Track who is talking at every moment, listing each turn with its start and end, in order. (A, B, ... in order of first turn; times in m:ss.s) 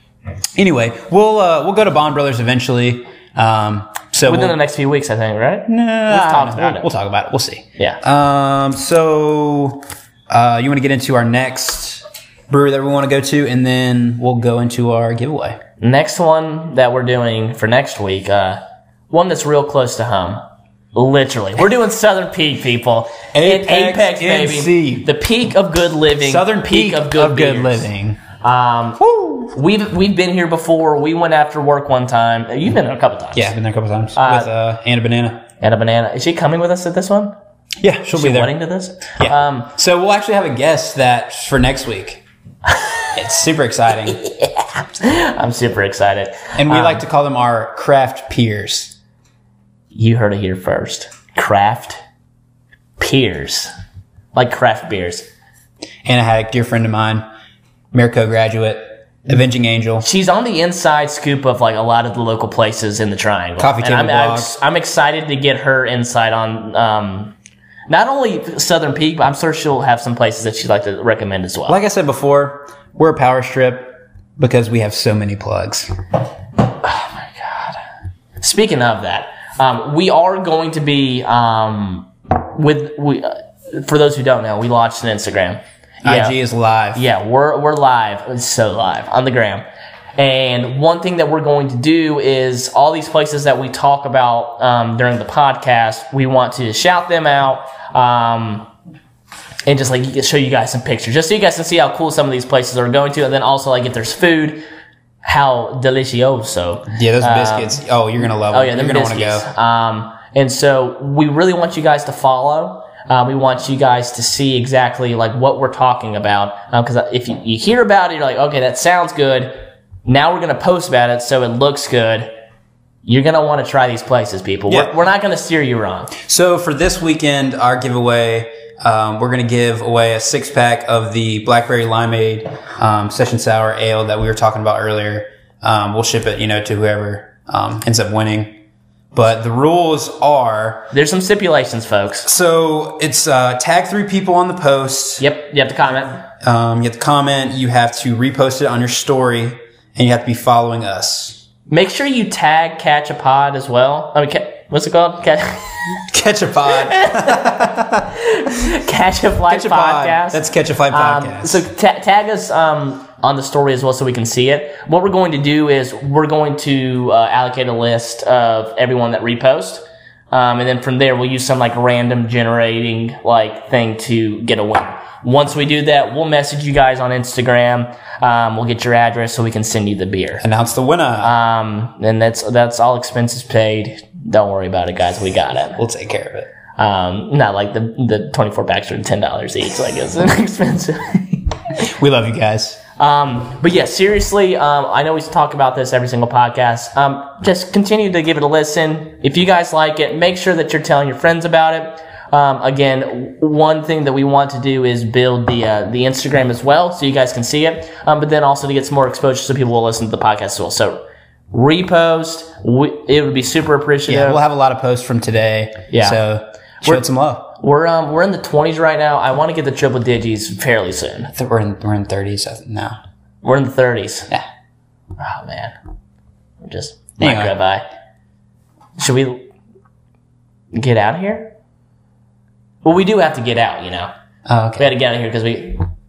0:00.6-0:04.6 A
0:04.3-0:06.9 B
0:05.7-0:15.6 A
0:15.8-0:20.4 B
0:20.9-0:27.9 B
0:23.3-0:25.1 A
0:26.2-0:28.2 A
0:28.4-0:33.5 B
0:29.0-0:29.4 A
0:33.4-0:35.4 A
0:34.2-0:34.5 B
0:35.6-0:37.4 B
0:37.8-0:38.6 A
0:38.1-0:39.7 B
0:39.2-0:42.2 A
0:43.1-0:44.2 A
0:44.2-0:47.0 B
0:46.6-0:48.9 A
0:49.9-0:52.0 B
0:53.0-0:53.7 B
0:54.3-0:55.3 B
0:56.0-0:57.3 A
0:57.9-1:00.1 A
1:00.0-1:07.3 B
1:03.6-1:04.5 A
1:07.9-1:11.8 B
1:11.7-1:15.9 A
1:16.8-1:17.8 B
1:18.4-1:26.4 B
1:26.0-1:27.0 A
1:27.0-1:29.6 B
1:30.2-1:38.7 B
1:39.7-1:44.6 B
1:45.2-1:47.8 B
1:46.9-1:49.5 A
1:48.5-2:02.3 B
2:03.0-2:06.1 B
2:06.2-2:18.6 A
2:19.1-2:20.9 A
2:20.9-2:22.3 B
2:22.2-2:25.3 A
2:25.2-2:26.2 B
2:26.4-2:31.4 A
2:31.7-2:35.7 B
2:36.1-2:38.1 A
2:36.7-3:00.4 B
2:39.5-2:41.6 A
3:00.4-3:01.3 A
3:01.2-3:05.8 B
3:05.8-3:06.5 A
3:06.8-3:11.6 B
3:11.8-3:12.8 A
3:13.0-3:34.4 B
3:34.1-3:37.5 A
3:35.9-3:36.2 B
3:37.6-3:41.3 B
3:41.3-3:43.0 A
3:43.4-3:44.3 B
3:45.2-3:45.8 B
3:46.6-3:47.8 B
3:47.2-3:47.6 A
3:49.0-3:49.5 B
3:50.7-3:51.5 B
3:52.8-3:54.1 B
3:54.5-3:54.9 A
3:54.8-3:55.9 B